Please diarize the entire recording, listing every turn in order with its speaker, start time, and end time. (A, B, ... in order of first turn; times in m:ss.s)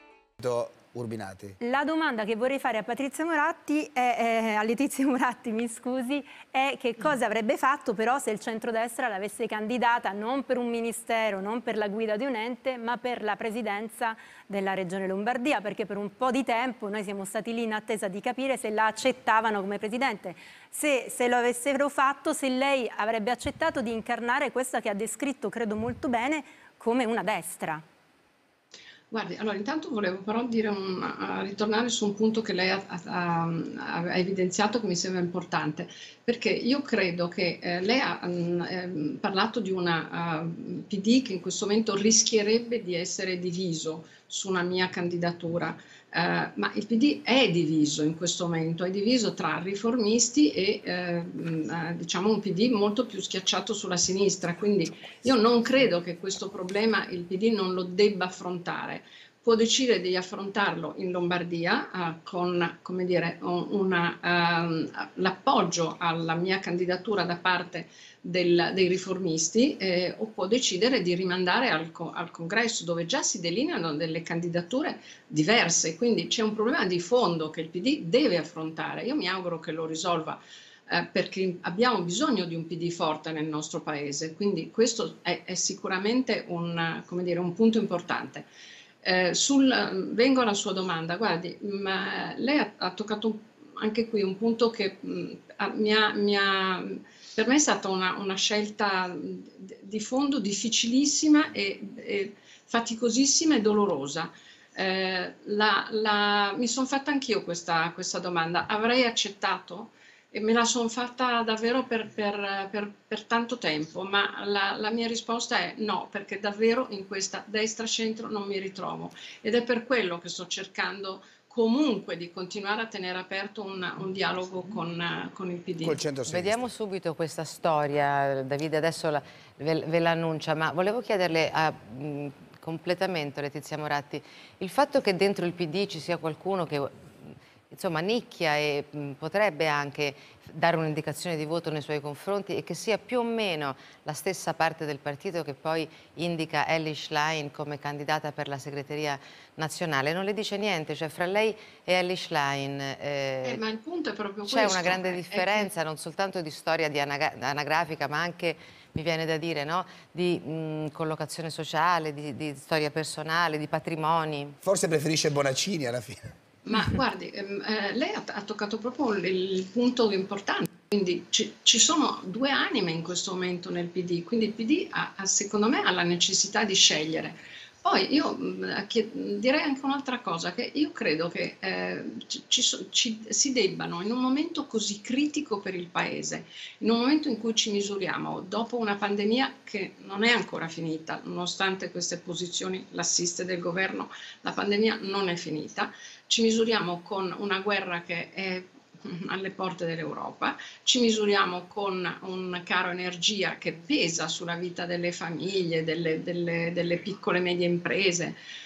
0:00.4-0:01.6 A
0:01.6-0:27.8 B
0:29.1-1:28.5 C
1:29.0-2:06.0 C
2:05.8-2:06.7 A
2:06.3-2:33.6 D
2:33.4-2:35.7 C
2:34.4-2:44.6 D
2:44.6-2:46.3 A
2:46.6-3:28.4 C